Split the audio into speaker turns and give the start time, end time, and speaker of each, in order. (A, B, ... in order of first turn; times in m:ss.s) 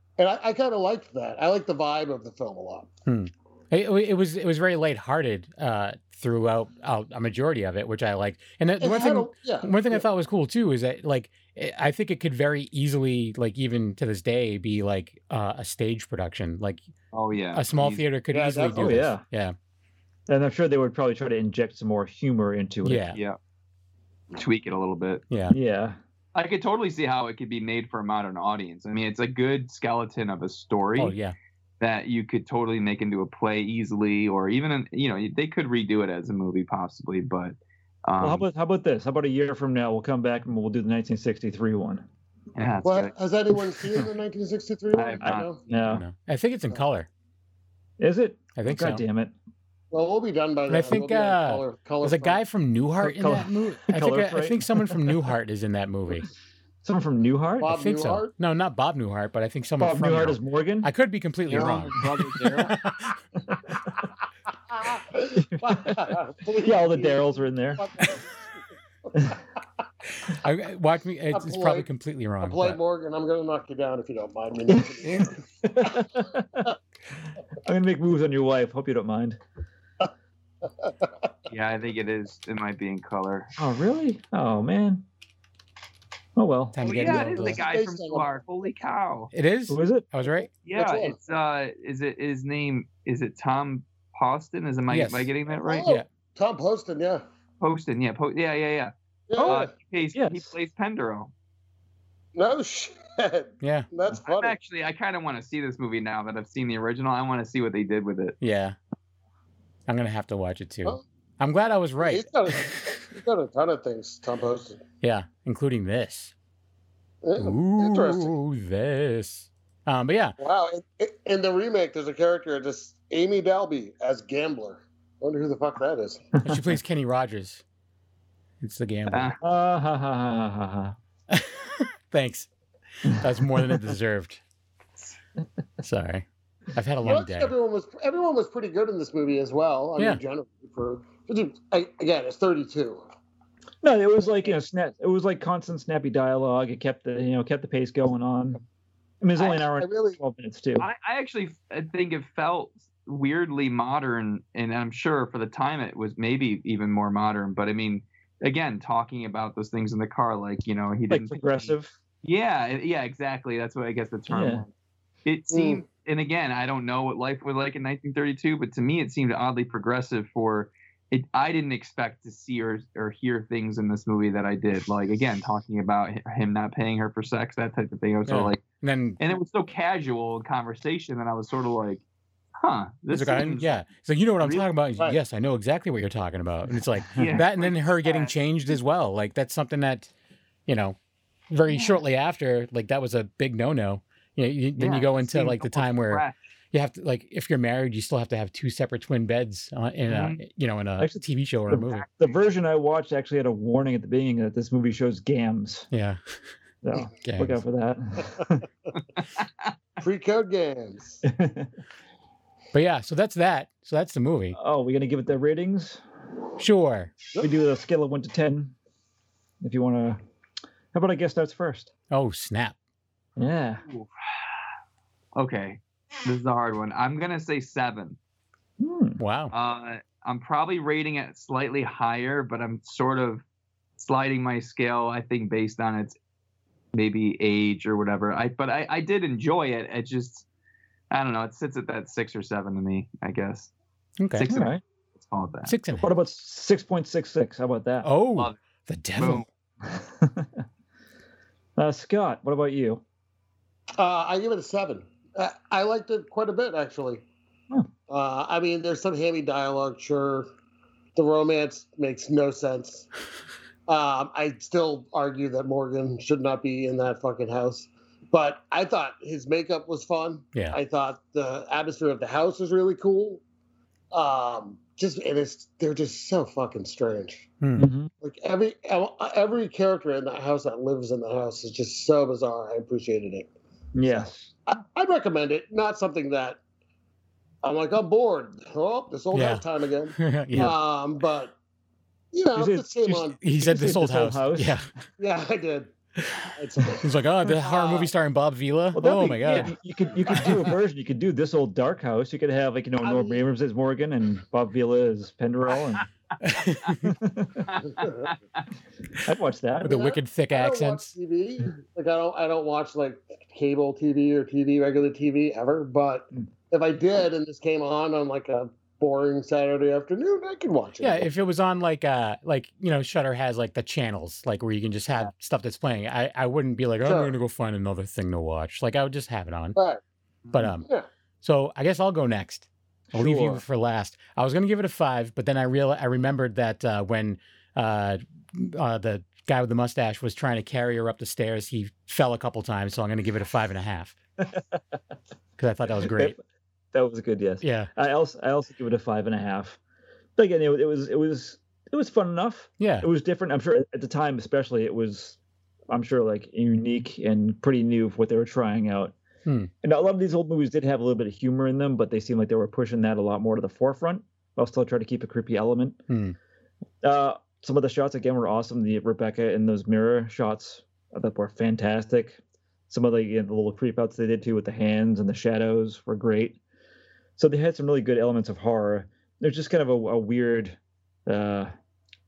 0:00.2-0:02.9 A
0:03.0-0:16.8 B
0:08.8-0:10.0 A
0:17.1-0:18.0 C
0:17.5-0:19.5 B
0:18.3-0:19.1 A
0:18.8-0:19.2 D
0:20.3-0:23.1 D
0:22.8-0:23.2 B
0:24.3-0:25.2 C
0:25.3-0:25.5 B
0:25.5-0:26.0 D
0:26.3-0:31.2 C
0:31.0-0:31.3 B
0:31.8-0:38.4 C
0:38.2-0:42.0 D
0:42.5-0:43.1 C
0:42.8-0:45.6 A
0:44.9-0:45.8 C
0:45.2-0:46.0 D
0:45.8-0:47.1 B
0:48.0-0:49.3 D
0:48.6-0:49.0 B
0:49.9-0:52.4 A
0:50.7-0:56.3 B
0:53.0-0:55.1 D
0:56.8-0:57.8 D
0:57.6-0:58.3 A
0:57.7-1:02.0 B
0:59.8-1:00.9 D
1:01.5-1:02.7 C
1:02.0-1:02.7 D
1:04.7-1:08.4 A
1:05.3-1:07.9 D
1:09.1-1:09.4 A
1:10.3-1:12.8 B
1:11.3-1:11.9 A
1:12.4-1:16.0 A
1:15.6-1:16.7 D
1:17.6-1:19.4 D
1:20.8-1:21.1 A
1:21.5-1:23.5 C
1:23.6-1:25.0 D
1:26.4-1:27.6 D
1:26.7-1:27.6 B
1:26.8-1:29.3 C
1:27.5-1:28.3 A
1:29.3-1:30.5 B
1:29.7-1:30.1 D
1:30.6-1:35.9 C
1:30.7-1:31.2 A
1:34.9-1:35.3 B
1:35.6-1:37.2 A
1:37.6-1:38.9 C
1:39.3-1:39.7 A
1:39.3-1:40.5 D
1:39.4-1:41.3 C
1:42.4-1:44.6 A
1:43.6-1:43.9 B
1:44.2-1:48.4 C
1:48.4-1:48.8 B
1:49.9-1:52.3 B
1:52.0-1:54.8 A
1:55.0-1:56.3 B
1:57.2-1:58.3 A
1:57.4-2:00.4 B
2:00.4-2:06.2 A
2:06.4-2:06.8 D
2:06.4-2:07.6 B
2:08.6-2:09.3 B
2:09.1-2:09.4 C
2:09.4-2:10.9 D
2:11.3-2:12.5 B
2:13.0-2:13.9 D
2:13.0-2:14.4 B
2:15.8-2:17.5 B
2:17.0-2:23.0 A
2:23.8-2:28.6 D
2:29.2-2:30.9 D
2:29.4-2:30.2 A
2:30.8-2:44.7 C
2:41.1-2:41.9 D
2:44.3-2:44.6 D
2:45.2-2:58.6 C
2:45.5-2:45.8 A
2:58.3-2:59.2 B
2:59.2-3:02.0 C
3:02.6-3:03.8 C
3:03.1-3:10.1 B
3:04.4-3:04.6 C
3:07.2-3:08.3 C
3:10.7-3:11.0 B
3:11.5-3:22.0 B
3:11.7-3:12.0 C
3:14.8-3:16.5 C
3:20.1-3:20.4 C
3:21.0-3:25.9 D
3:25.9-3:26.2 B
3:26.8-3:28.6 D
3:27.2-3:27.6 B
3:29.2-3:29.7 C
3:30.0-3:31.2 A
3:31.2-3:31.7 D
3:32.7-3:34.6 B
3:34.5-3:36.0 D
3:36.6-3:37.1 B
3:37.4-3:38.7 D
3:39.6-3:40.2 D
3:40.9-3:41.9 D
3:42.1-3:42.8 B
3:43.4-3:43.8 D
3:45.3-3:48.2 C
3:48.8-3:49.2 D
3:49.2-3:49.5 B
3:49.5-3:53.4 C
3:54.0-3:56.2 C
3:56.9-4:00.4 C
4:01.1-4:03.7 C
4:04.2-4:04.5 B
4:04.3-4:05.7 C
4:04.5-4:04.8 D
4:05.7-4:06.1 B
4:06.0-4:08.1 D
4:08.0-4:09.4 B
4:09.2-4:09.4 C
4:09.8-4:10.6 D
4:11.8-4:13.0 D
4:14.0-4:17.2 A
4:18.1-4:20.5 A
4:21.1-4:23.1 A
4:23.9-4:33.4 A
4:34.1-4:37.5 A
4:37.6-4:37.9 B
4:37.8-4:38.1 D
4:38.2-4:43.5 A
4:43.9-4:44.5 D
4:44.1-4:46.6 A
4:47.6-4:51.5 A
4:49.3-4:49.6 B
4:50.2-4:50.8 B
4:52.3-4:53.4 A
4:52.5-4:54.9 D
4:53.4-4:54.9 B
4:55.2-4:55.9 A
4:56.5-4:58.1 A
4:57.0-4:59.7 B
4:58.9-5:06.1 D
5:03.0-5:03.4 A
5:06.4-5:07.1 B
5:07.0-5:07.7 D
5:07.7-5:08.6 C
5:08.0-5:08.3 A
5:09.2-5:10.1 D
5:09.8-5:11.1 B
5:09.8-5:21.3 A
5:21.0-5:29.8 B
5:27.0-5:27.3 A
5:29.8-5:30.0 A
5:30.4-5:30.7 C
5:30.5-5:30.9 B
5:31.4-5:44.2 B
5:33.1-5:33.6 D
5:44.4-5:44.8 D
5:45.6-5:46.3 B
5:46.0-5:46.4 D
5:46.9-5:49.8 D
5:47.6-5:47.9 B
5:50.4-5:55.4 D
5:52.8-5:53.1 B
5:55.9-5:59.1 D
5:59.4-5:59.7 B
5:59.8-6:06.0 D
6:06.1-6:06.4 B
6:07.0-6:16.6 D
6:17.4-6:21.7 D